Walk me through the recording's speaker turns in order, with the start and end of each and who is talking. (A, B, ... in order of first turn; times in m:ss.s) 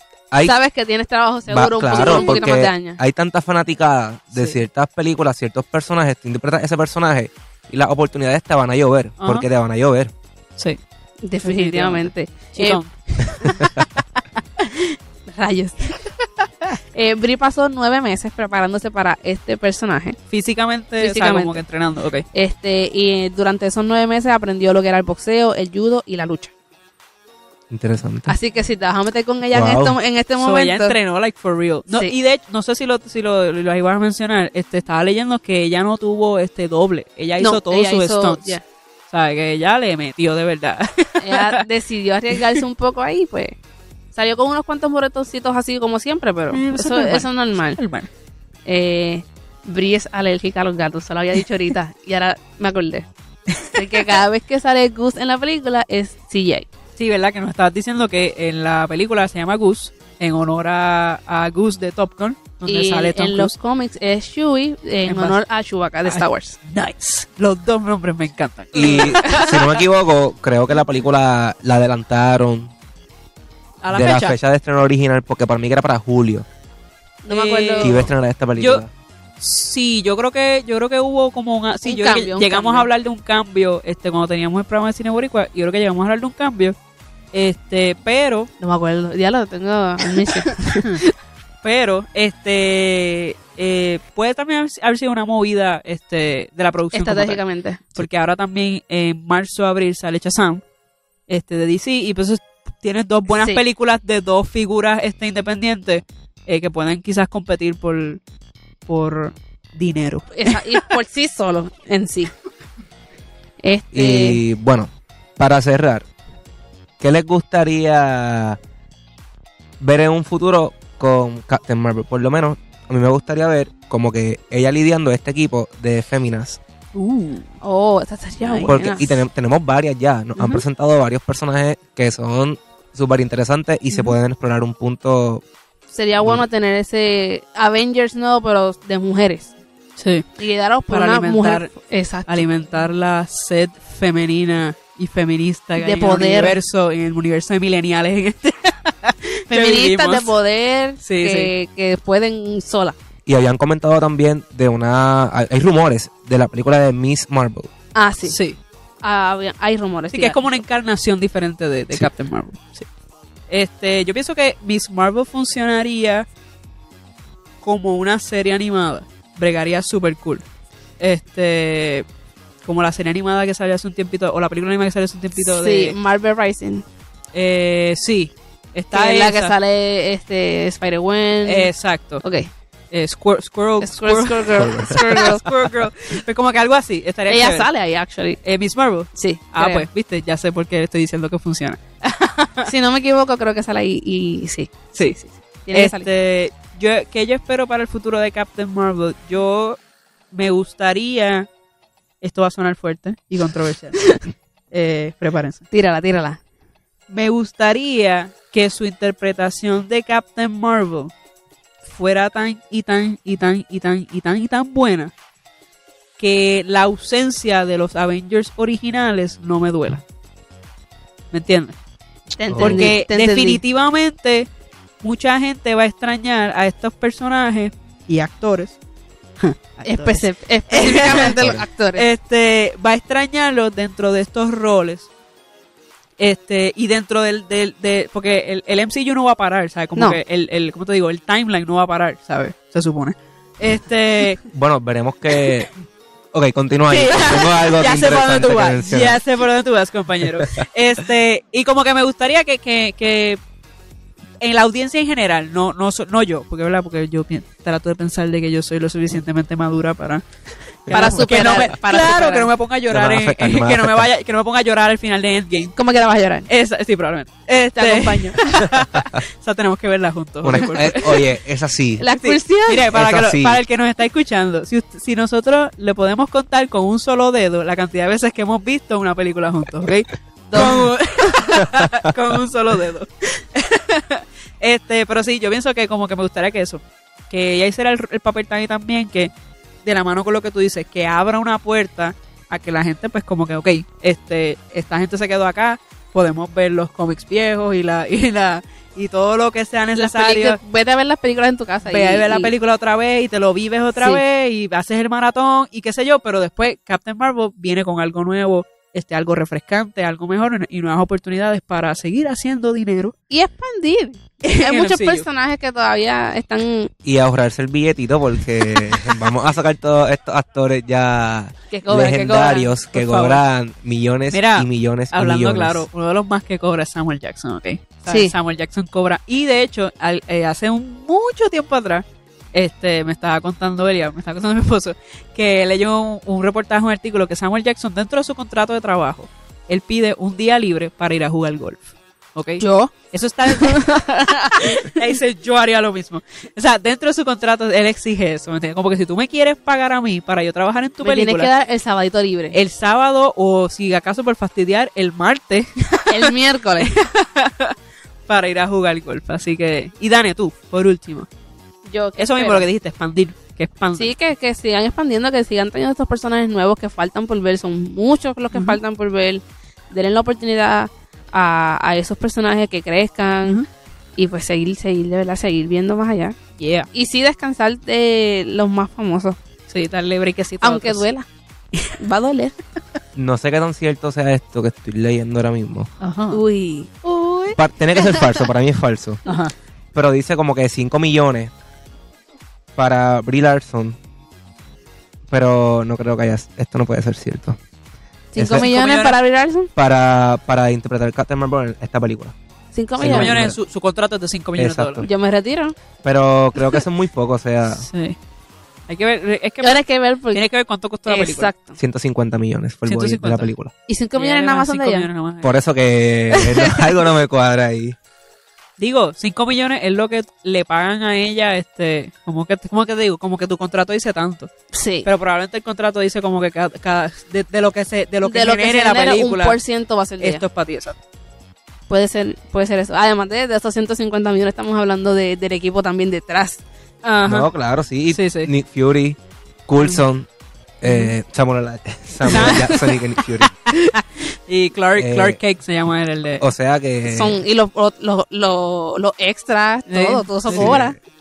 0:00.4-0:03.0 A
0:01.5-0:10.1 B
0:01.9-0:02.5 C
0:09.2-0:09.5 C
0:11.2-0:12.8 A
0:11.4-0:13.8 C
0:15.3-0:16.0 A
0:16.9-0:20.2 A
0:20.3-0:22.3 C
0:21.0-0:21.6 A
0:22.3-0:26.5 A
0:27.7-0:28.3 B
0:28.3-0:31.0 A
0:29.5-0:30.0 B
0:30.4-0:38.6 C
0:37.4-0:38.6 A
0:39.1-0:41.6 C
0:41.2-0:43.6 A
0:42.3-0:42.6 C
0:44.1-0:47.8 A
0:46.5-0:48.1 C
0:48.7-0:53.1 A
0:53.5-0:54.0 C
0:53.7-0:56.7 A
0:57.0-1:03.5 C
1:02.6-1:06.6 A
1:05.1-1:05.4 C
1:06.1-1:09.8 C
1:08.8-1:12.7 B
1:08.8-1:09.5 A
1:13.8-1:14.4 C
1:13.9-1:16.5 B
1:17.2-1:18.0 A
1:17.3-1:18.8 C
1:17.8-1:18.9 B
1:19.4-1:26.8 C
1:21.8-1:22.9 A
1:27.3-1:28.5 C
1:28.6-1:31.1 A
1:30.1-1:31.0 C
1:31.6-1:37.4 C
1:36.9-1:38.0 A
1:37.9-1:40.6 C
1:41.3-1:48.2 C
1:43.3-1:43.6 A
1:48.9-1:50.8 C
1:50.3-1:52.3 A
1:53.6-1:54.4 A
1:53.9-1:56.1 B
1:57.0-1:58.6 B
1:59.8-2:06.6 B
2:06.9-2:07.6 C
2:07.6-2:09.2 A
2:08.4-2:08.8 C
2:08.6-2:15.4 B
2:13.9-2:14.2 C
2:15.9-2:19.5 A
2:20.0-2:20.3 C
2:20.4-2:22.4 A
2:20.9-2:21.7 C
2:22.3-2:30.3 C
2:25.8-2:26.6 A
2:29.5-2:33.0 A
2:31.0-2:31.5 C
2:33.3-2:37.7 B
2:38.0-2:38.4 A
2:38.2-2:38.6 C
2:39.0-2:40.6 A
2:40.1-2:42.9 C
2:43.5-2:46.3 C
2:47.6-2:50.4 C
2:51.0-2:52.0 C
2:52.6-2:56.0 C
2:55.4-2:56.8 A
2:57.3-2:59.6 C
2:58.9-3:01.7 A
3:01.4-3:02.2 C
3:02.2-3:02.5 A
3:02.9-3:07.7 C
3:03.8-3:05.5 A
3:04.6-3:05.3 B
3:07.3-3:08.4 A
3:08.4-3:12.7 C
3:09.1-3:09.8 A
3:12.6-3:16.1 A
3:15.7-3:19.8 C
3:20.3-3:21.5 C
3:22.2-3:24.1 C
3:24.7-3:25.6 C
3:25.7-3:26.4 A
3:27.1-3:31.1 C
3:31.8-3:35.1 C
3:36.2-3:40.0 C
3:41.3-3:41.8 C
3:42.4-3:43.6 A
3:42.5-3:42.9 B
3:42.6-3:44.5 C
3:45.0-3:48.8 C
3:49.4-3:55.1 C
3:49.8-3:52.1 A
3:51.2-3:51.6 B
3:56.2-4:04.4 C
4:04.5-4:05.7 B
4:06.3-4:09.2 B
4:06.9-4:13.4 C
4:14.4-4:20.2 C
4:20.9-4:25.8 C
4:20.9-4:21.2 B
4:20.9-4:22.5 A
4:22.9-4:24.1 B
4:25.8-4:26.5 A
4:26.5-4:31.2 C
4:27.8-4:28.4 A
4:28.6-4:29.2 B
4:30.4-4:32.0 B
4:30.5-4:31.0 A
4:32.0-4:32.9 A
4:32.0-4:49.3 C
4:32.9-4:33.6 B
4:40.5-4:40.8 A
4:49.8-5:00.6 C
5:00.0-5:02.5 A
5:01.8-5:13.1 C
5:13.3-5:16.9 A
5:14.4-5:15.2 C
5:17.0-5:25.9 B
5:21.7-5:22.8 A
5:22.9-5:23.4 C
5:24.3-5:51.5 C
5:28.1-5:28.3 A
5:42.6-5:42.9 A
5:43.5-5:45.0 A
5:51.0-5:52.6 A
5:52.5-5:57.8 C
5:56.1-5:56.9 A
5:58.3-6:01.3 C
6:01.8-6:02.6 A
6:02.2-6:04.1 C
6:04.0-6:13.6 A
6:08.5-6:08.8 C
6:14.2-6:16.4 A
6:16.6-6:16.9 C
6:16.9-6:19.4 A
6:19.7-6:21.1 C
6:20.6-6:21.3 A
6:22.0-6:22.6 A
6:23.2-6:25.9 B
6:26.0-6:26.4 C
6:26.3-6:27.0 A
6:27.1-6:27.6 C
6:27.5-6:29.2 B
6:29.3-6:29.5 C
6:29.9-6:31.5 B
6:32.8-6:34.0 B
6:35.3-6:37.6 B
6:38.3-6:39.7 A
6:38.4-6:38.7 B
6:38.5-6:39.2 C
6:39.8-6:42.4 B
6:42.7-6:43.4 A
6:43.0-6:43.6 B
6:43.0-6:45.1 C
6:44.6-6:45.1 B
6:45.0-6:45.8 A
6:46.0-6:47.9 B
6:47.7-6:48.2 C
6:48.9-6:51.5 C
6:49.6-6:50.4 A
6:51.1-6:51.8 A
6:51.8-6:53.7 B
6:52.8-6:53.5 C
6:53.9-6:55.1 A
6:54.2-6:55.6 C
6:55.4-6:58.0 B
6:56.4-6:56.8 A
6:58.8-7:04.5 C
7:04.7-7:05.1 A
7:05.0-7:09.6 C
7:08.2-7:10.4 A
7:10.2-7:11.0 C
7:11.9-7:16.6 A
7:17.0-7:17.5 C
7:17.2-7:20.3 B
7:18.1-7:18.5 C
7:20.8-7:23.5 B
7:20.8-7:21.1 C
7:22.2-7:26.4 C
7:25.0-7:25.4 B
7:26.4-7:27.4 B
7:27.0-7:31.0 A
7:29.9-7:30.8 C
7:30.5-7:31.0 B